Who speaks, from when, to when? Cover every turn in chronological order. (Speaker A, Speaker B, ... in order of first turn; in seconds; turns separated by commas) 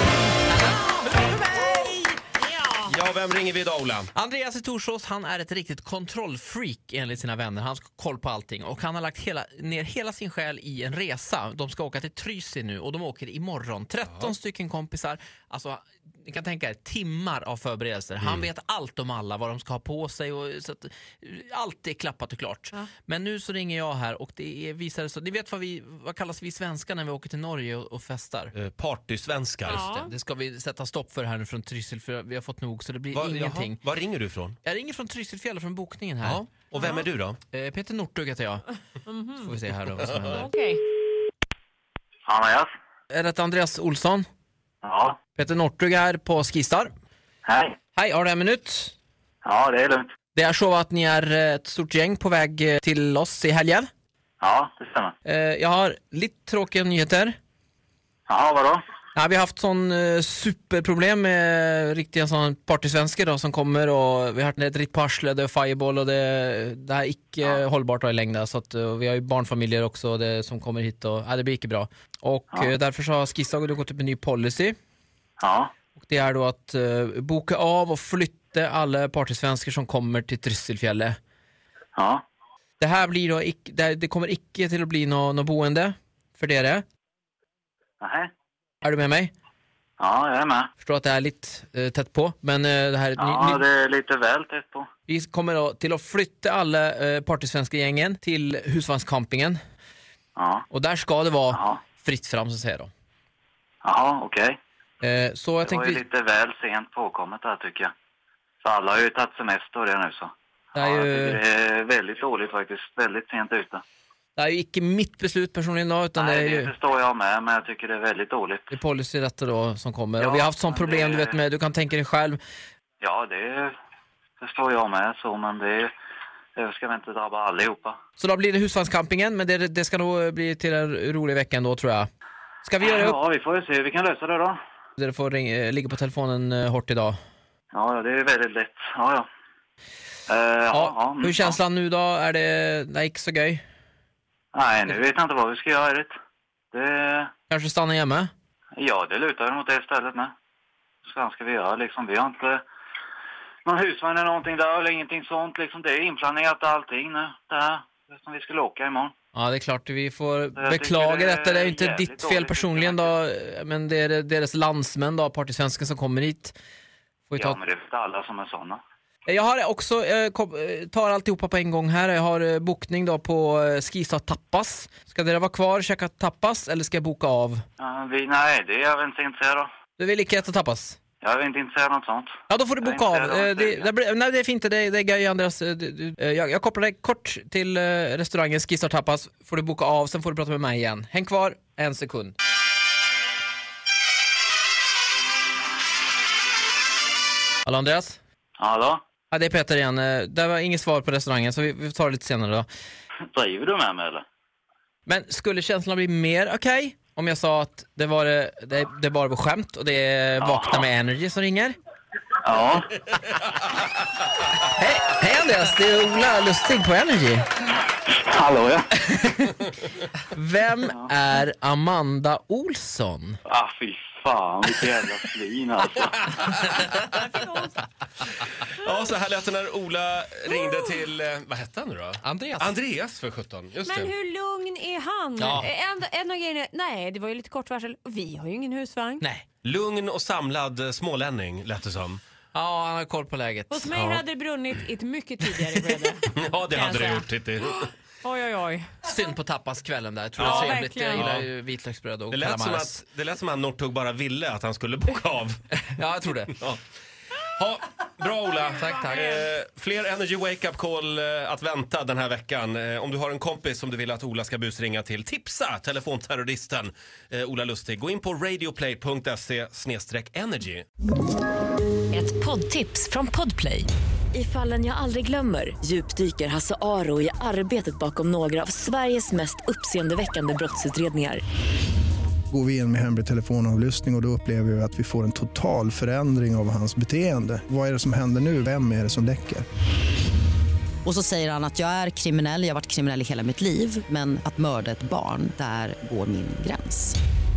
Speaker A: 0.7-2.2, Speaker B: 2.8-4.1, Speaker A: 4.1-28.5, Speaker B: 28.5-29.9, Speaker C: 29.6-30.1, Speaker A: 29.9-33.8, Speaker B: 33.1-34.5, Speaker A: 34.6-36.5, Speaker B: 36.2-37.4, Speaker C: 36.8-37.0, Speaker A: 37.5-38.6, Speaker C: 39.1-39.5, Speaker A: 39.4-40.5, Speaker C: 40.3-40.8, Speaker D: 42.3-42.7, Speaker A: 43.1-44.2, Speaker D: 44.8-45.2, Speaker A: 45.4-46.9, Speaker D: 47.4-47.8, Speaker A: 47.9-48.9, Speaker D: 49.4-50.1, Speaker A: 50.3-53.9, Speaker D: 54.4-55.1, Speaker A: 55.2-57.3, Speaker D: 58.3-58.8, Speaker A: 59.1-74.7, Speaker D: 75.4-75.7, Speaker A: 76.0-81.2, Speaker D: 82.0-82.2, Speaker A: 82.8-86.8, Speaker D: 88.0-88.3, Speaker A: 88.8-89.3, Speaker D: 90.0-90.7, Speaker A: 90.8-93.6, Speaker D: 93.2-94.9, Speaker A: 95.1-99.6, Speaker D: 100.3-100.6, Speaker A: 100.7-102.9, Speaker D: 101.5-101.8, Speaker D: 103.8-104.6, Speaker A: 105.0-106.0, Speaker D: 105.6-107.9, Speaker D: 108.6-113.8, Speaker A: 110.8-111.4, Speaker A: 114.4-116.7, Speaker D: 116.2-118.7, Speaker A: 118.7-122.4, Speaker D: 120.2-121.3, Speaker D: 123.0-123.7, Speaker D: 124.4-125.9, Speaker D: 126.5-128.0, Speaker A: 128.2-132.1, Speaker A: 132.6-133.2, Speaker D: 132.8-134.6, Speaker A: 135.0-137.2, Speaker D: 137.7-139.2, Speaker D: 140.3-141.6, Speaker A: 140.7-143.6, Speaker D: 144.5-146.1, Speaker D: 146.7-147.3, Speaker A: 147.5-148.3, Speaker D: 148.8-150.3, Speaker D: 151.0-152.6, Speaker D: 153.7-159.1, Speaker A: 159.3-166.6, Speaker D: 160.6-163.2, Speaker A: 167.3-167.6, Speaker D: 167.4-168.8, Speaker A: 169.2-177.6, Speaker D: 177.8-179.7, Speaker A: 180.0-181.0, Speaker D: 181.2-183.9, Speaker A: 182.5-192.3, Speaker A: 197.6-198.2, Speaker D: 198.6-199.0, Speaker A: 199.3-202.7, Speaker D: 203.3-204.2, Speaker A: 205.1-211.8, Speaker D: 210.4-210.8, Speaker D: 212.4-212.9, Speaker A: 214.7-217.4, Speaker D: 217.9-218.9, Speaker A: 219.0-219.6, Speaker A: 220.3-223.4, Speaker D: 223.5-226.3, Speaker C: 227.0-227.8, Speaker B: 228.7-234.1, Speaker A: 232.2-232.7, Speaker C: 233.8-239.2, Speaker A: 235.4-235.7, Speaker B: 239.6-242.2, Speaker A: 242.5-243.9, Speaker C: 243.7-247.3, Speaker B: 243.9-244.2, Speaker A: 245.4-245.9, Speaker B: 246.2-247.9, Speaker C: 248.2-249.1, Speaker A: 249.0-253.0, Speaker B: 250.4-251.5, Speaker C: 250.4-251.3, Speaker B: 252.3-255.6, Speaker A: 255.8-256.5, Speaker B: 257.4-270.9, Speaker C: 258.8-259.4, Speaker E: 272.1-281.4, Speaker F: 282.5-289.6, Speaker G: 291.0-297.2